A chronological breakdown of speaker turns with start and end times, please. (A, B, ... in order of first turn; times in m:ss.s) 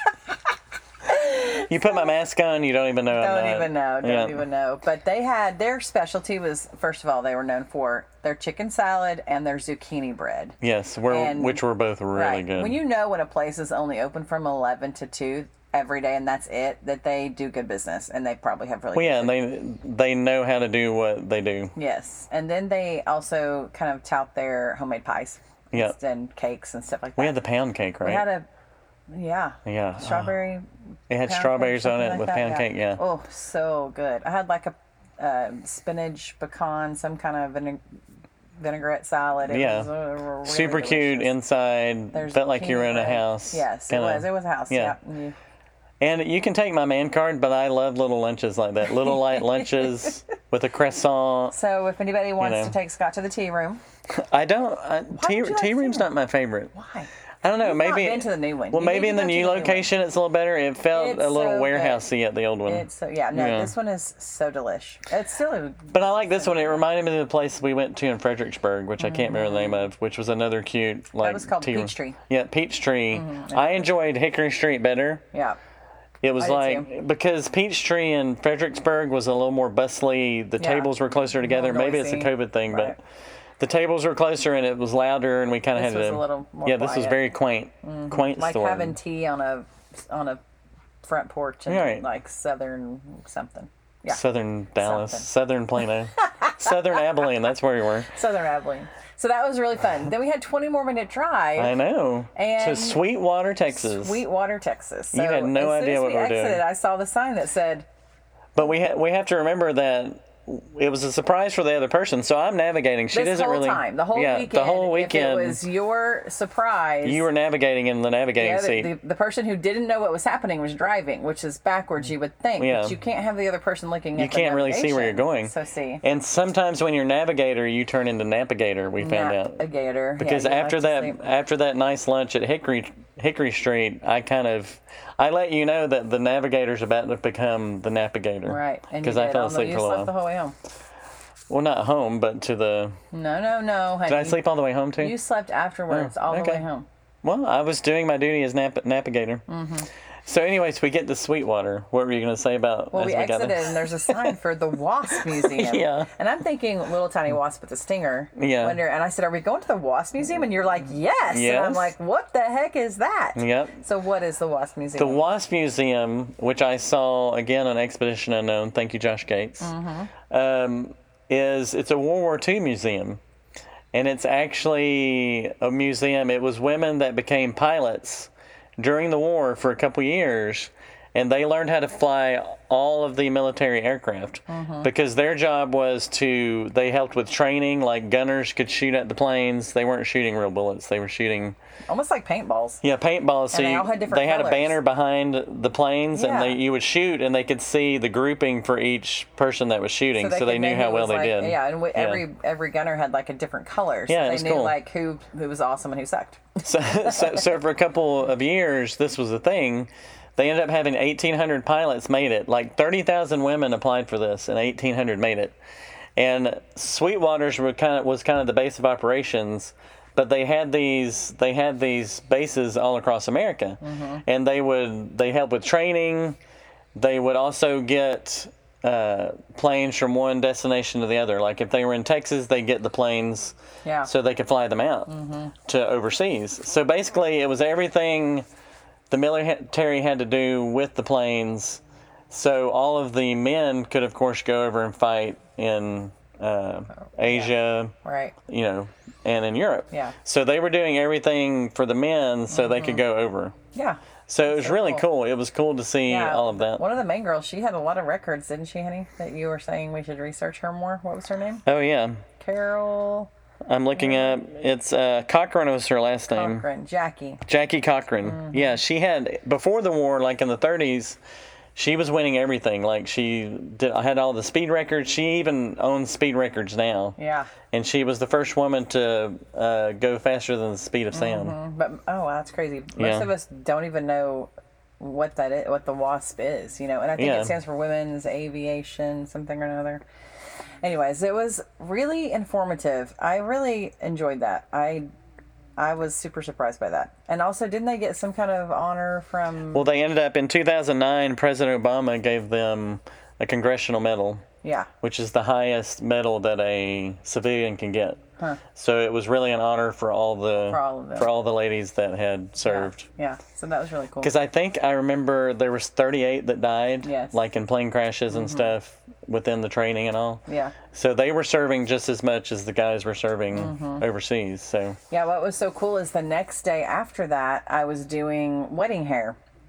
0:01.1-0:01.7 A
0:01.1-0:04.4 B
0:03.1-0:10.6 A
0:10.6-0:12.8 B
0:11.1-0:11.6 A
0:12.1-0:19.3 A
0:18.9-0:21.7 B
0:21.8-0:27.4 A
0:27.2-0:28.2 B
0:28.0-0:28.4 A
0:29.1-0:30.6 A
0:29.6-0:30.3 B
0:31.1-0:33.0 B
0:31.2-0:37.8 A
0:38.6-0:41.3 A
0:39.4-0:39.9 B
0:40.4-0:45.0 B
0:42.1-0:45.3 A
0:46.0-0:51.5 B
0:49.4-0:49.8 A
0:51.5-0:53.8 A
0:52.4-0:52.8 B
0:54.1-0:56.7 B
0:55.1-0:56.1 A
0:56.7-0:57.1 A
0:57.4-1:03.7 B
0:57.6-0:59.9 A
1:00.9-1:02.1 A
1:02.6-1:06.8 A
1:05.9-1:15.2 B
1:09.0-1:09.8 A
1:11.2-1:12.2 A
1:13.1-1:13.9 A
1:15.3-1:15.6 A
1:16.2-1:23.0 B
1:16.4-1:16.9 A
1:20.6-1:23.0 A
1:23.6-1:29.0 B
1:25.7-1:27.2 A
1:27.8-1:30.4 A
1:31.0-1:34.2 A
1:31.7-1:32.0 B
1:34.1-1:38.1 B
1:34.8-1:35.2 A
1:36.2-1:37.2 A
1:38.1-1:41.8 A
1:41.6-1:44.2 B
1:42.3-1:43.0 A
1:43.7-1:47.8 A
1:45.1-1:46.6 B
1:48.6-1:55.6 B
1:53.1-1:57.2 A
1:57.0-1:58.9 B
1:58.4-2:06.0 A
2:02.6-2:03.0 B
2:04.2-2:09.6 B
2:09.0-2:11.2 A
2:10.2-2:20.1 B
2:18.4-2:20.5 A
2:21.5-2:23.0 B
2:23.1-2:24.4 A
2:24.1-2:25.1 B
2:25.0-2:26.8 A
2:25.9-2:26.6 B
2:27.2-2:29.4 B
2:29.5-2:29.9 A
2:30.2-2:34.4 B
2:32.9-2:45.2 A
2:35.2-2:36.1 B
2:38.4-2:38.8 B
2:41.3-2:41.9 B
2:43.4-2:43.8 B
2:45.0-2:49.7 B
2:49.6-2:50.1 A
2:50.3-2:53.2 B
2:53.9-3:11.6 B
3:04.5-3:04.9 A
3:11.9-3:12.8 A
3:12.8-3:22.2 B
3:13.5-3:14.8 A
3:16.1-3:16.6 A
3:20.2-3:27.5 A
3:24.1-3:24.8 B
3:26.6-3:35.6 B
3:36.2-3:46.4 B
3:43.8-3:44.2 A
3:47.0-3:55.1 B
3:53.8-3:54.1 A
3:55.1-3:55.5 A
3:55.6-3:58.4 B
3:59.1-4:07.9 B
4:07.0-4:08.3 A
4:08.5-4:13.5 B
4:12.5-4:13.0 A
4:13.7-4:15.0 A
4:14.3-4:16.8 B
4:16.1-4:21.6 A
4:21.6-4:22.2 B
4:22.4-4:23.3 A
4:23.7-4:26.6 B
4:26.3-4:27.4 A
4:27.4-4:31.2 B
4:28.2-4:28.6 A
4:31.7-4:37.2 B
4:37.2-4:37.5 A
4:37.7-4:41.6 B
4:41.1-4:50.0 A
4:43.0-4:43.3 B
4:47.2-4:47.5 B
4:50.8-4:55.1 A
4:55.8-4:59.9 A
4:59.7-5:04.4 B
5:04.6-5:04.9 A
5:05.0-5:08.2 B
5:08.7-5:13.0 B
5:10.6-5:11.3 A
5:12.6-5:14.3 A
5:14.2-5:25.0 B
5:17.0-5:17.3 A
5:18.3-5:18.7 A
5:20.5-5:20.8 A
5:23.5-5:24.0 A
5:25.1-5:29.4 A